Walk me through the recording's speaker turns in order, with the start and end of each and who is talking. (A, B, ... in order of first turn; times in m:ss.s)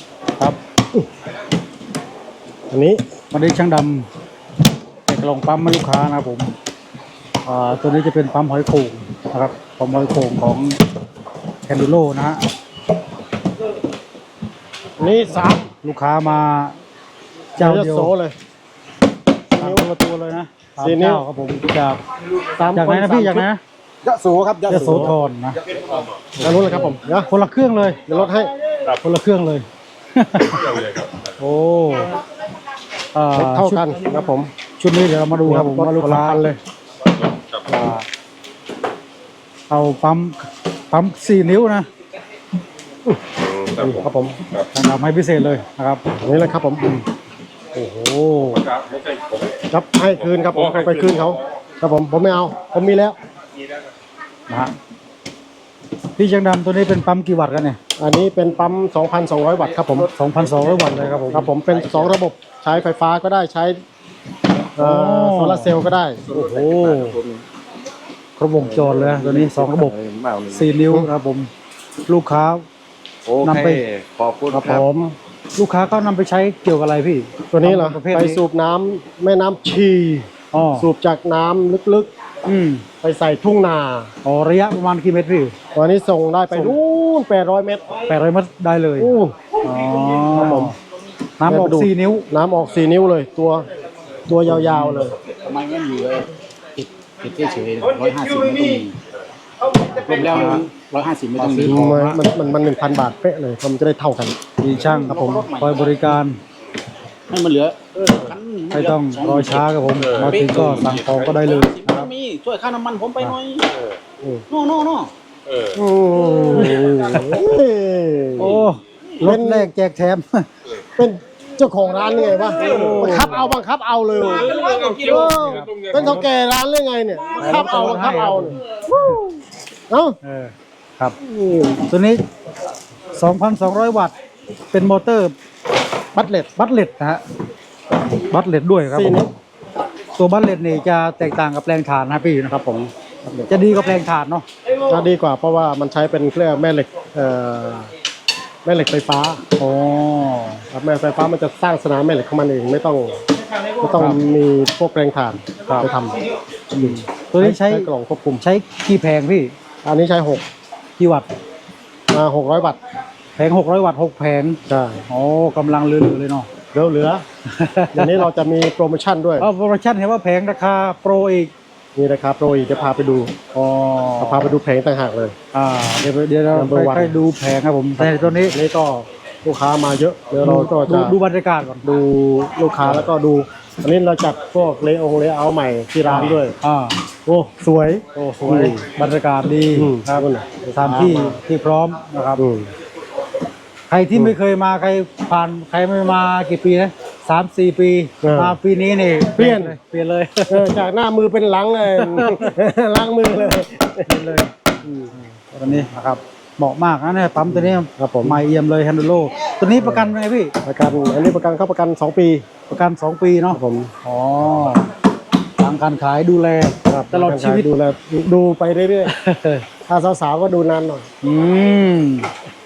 0:02.7-0:03.0 A
0:03.3-0:04.1 B
0:05.1-0:06.5 B
0:07.4-0:10.8 B
0:11.7-0:12.4 B
0:15.0-0:15.7 A
0:15.8-0:16.8 B
0:17.6-0:18.1 B
0:17.6-0:18.4 A
0:19.6-0:19.9 A
0:19.6-0:22.0 B
0:20.8-0:21.3 A
0:22.5-0:23.5 A
0:22.7-0:23.6 B
0:24.0-0:25.1 C
0:24.7-0:25.6 B
0:24.7-0:25.1 A
0:26.4-0:28.0 B
0:26.4-0:27.3 A
0:28.1-0:28.5 A
0:29.0-0:30.7 B
0:31.4-0:32.1 B
0:33.1-0:33.9 B
0:33.3-0:34.5 A
0:34.8-0:36.6 B
0:35.4-0:36.6 A
0:37.7-0:38.0 B
0:39.7-0:41.9 B
0:43.0-0:44.4 A
0:44.7-0:46.0 B
0:46.2-0:46.8 A
0:47.8-0:48.6 B
0:49.7-0:53.2 A
0:56.2-0:57.8 B
0:58.0-1:00.1 A
1:00.1-1:01.5 B
1:01.3-1:03.8 A
1:04.8-1:06.2 A
1:04.8-1:05.8 B
1:06.3-1:07.2 B
1:08.4-1:09.9 B
1:09.7-1:10.6 D
1:10.5-1:11.5 B
1:12.1-1:12.6 B
1:13.3-1:14.7 D
1:13.4-1:13.8 B
1:14.5-1:15.2 A
1:15.6-1:18.4 B
1:17.5-1:22.1 A
1:20.5-1:20.9 B
1:22.5-1:22.8 B
1:23.0-1:24.1 A
1:24.2-1:25.6 B
1:25.7-1:28.0 A
1:26.5-1:26.8 B
1:28.1-1:30.8 B
1:29.0-1:29.4 A
1:30.3-1:30.8 A
1:31.4-1:32.3 B
1:31.5-1:33.7 A
1:34.3-1:35.2 A
1:34.5-1:35.1 B
1:35.4-1:39.0 C
1:39.9-1:42.2 C
1:40.1-1:40.6 B
1:41.4-1:41.9 B
1:41.6-1:44.4 A
1:44.6-1:46.4 B
1:44.9-1:45.9 C
1:45.1-1:45.5 A
1:47.3-1:49.6 C
1:48.7-1:52.1 B
1:50.2-1:53.8 C
1:54.5-1:55.1 C
1:55.7-1:58.6 A
1:56.5-1:57.4 B
1:58.4-2:00.5 B
1:59.2-1:59.7 A
2:01.0-2:10.2 A
2:02.6-2:03.4 B
2:05.2-2:06.3 B
2:07.4-2:08.6 B
2:10.2-2:11.2 B
2:11.2-2:11.8 A
2:11.9-2:12.2 B
2:13.2-2:14.1 B
2:14.7-2:15.3 B
2:16.2-2:16.4 A
2:16.3-2:17.2 B
2:18.2-2:19.3 B
2:18.9-2:19.3 A
2:20.2-2:22.5 B
2:22.5-2:23.5 A
2:23.5-2:24.5 B
2:24.9-2:27.9 A
2:28.6-2:29.4 A
2:29.6-2:30.6 B
2:30.7-2:33.2 A
2:33.8-2:36.2 A
2:36.7-2:37.9 B
2:36.8-2:38.4 A
2:38.4-2:39.5 B
2:39.8-2:40.4 A
2:41.0-2:41.3 B
2:42.1-2:42.8 A
2:43.4-2:46.5 B
2:44.7-2:45.0 A
2:46.7-2:47.2 A
2:47.5-2:48.3 B
2:47.9-2:49.5 A
2:49.4-2:51.5 B
2:52.0-2:53.3 A
2:53.5-2:54.4 B
2:54.2-2:55.4 A
2:55.5-2:58.5 B
2:56.5-2:57.2 A
2:58.0-3:01.2 A
3:00.4-3:01.9 B
3:01.8-3:06.6 A
3:06.0-3:07.0 B
3:07.3-3:08.9 A
3:08.2-3:12.4 B
3:09.7-3:11.4 A
3:12.4-3:12.7 A
3:13.9-3:20.7 B
3:18.2-3:18.6 A
3:19.4-3:19.8 A
3:20.5-3:24.2 A
3:21.8-3:22.5 B
3:24.1-3:24.6 B
3:24.8-3:25.1 A
3:25.2-3:30.5 B
3:27.5-3:28.4 A
3:29.8-3:30.1 A
3:30.6-3:32.4 A
3:32.7-3:34.9 B
3:33.5-3:33.9 A
3:35.6-3:37.7 B
3:36.9-3:39.1 A
3:39.1-3:39.6 B
3:39.9-3:41.1 A
3:41.2-3:42.3 B